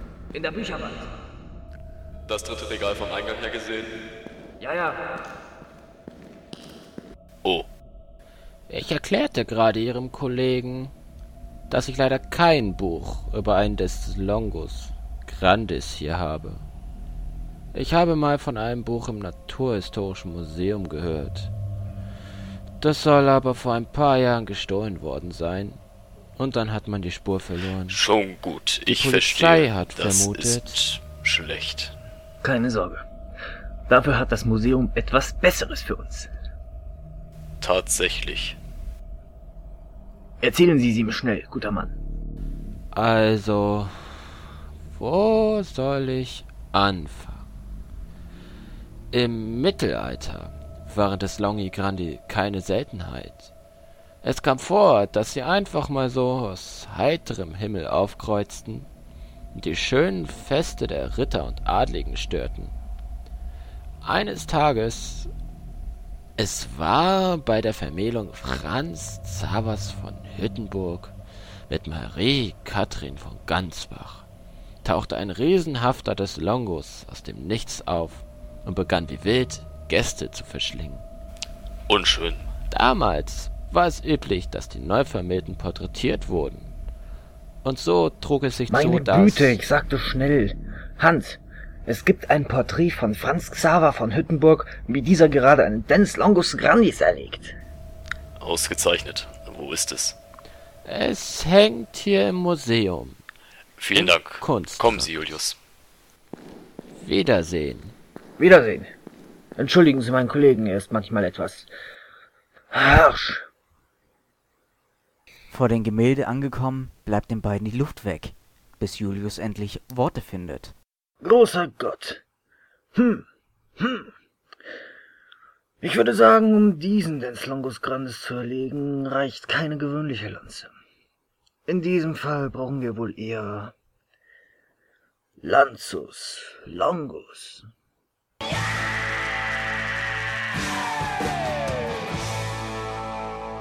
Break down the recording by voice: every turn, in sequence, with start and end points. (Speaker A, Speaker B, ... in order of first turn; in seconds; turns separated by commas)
Speaker A: 0.3-1.0, Speaker B: 2.3-4.0, Speaker A: 4.6-5.0, Speaker C: 8.7-10.9, Speaker C: 11.7-16.6, Speaker C: 17.7-21.5, Speaker C: 22.8-25.8, Speaker C: 26.4-28.0, Speaker B: 27.9-31.9, Speaker C: 28.9-30.9, Speaker A: 32.4-33.0, Speaker A: 33.9-36.3, Speaker B: 37.6-38.6, Speaker A: 40.4-41.9, Speaker C: 42.9-44.3, Speaker C: 44.9-47.5, Speaker C: 49.1-53.5, Speaker C: 54.2-58.9, Speaker C: 59.5-62.7, Speaker C: 64.0-65.3, Speaker C: 66.4-71.2, Speaker C: 71.7-74.3, Speaker C: 74.8-81.0, Speaker B: 81.9-82.5, Speaker C: 82.7-86.7, Speaker C: 87.6-89.6, Speaker A: 88.7-97.6, Speaker B: 98.4-100.2, Speaker C: 100.8-103.2, Speaker B: 103.8-105.6, Speaker C: 103.9-105.1, Speaker C: 107.0-108.0, Speaker A: 108.4-108.9, Speaker A: 109.6-111.7, Speaker A: 112.7-113.5, Speaker D: 115.5-120.7, Speaker A: 121.2-122.2, Speaker A: 122.9-123.3, Speaker A: 123.8-124.1, Speaker A: 125.8-130.7, Speaker A: 131.7-133.7, Speaker A: 135.4-137.7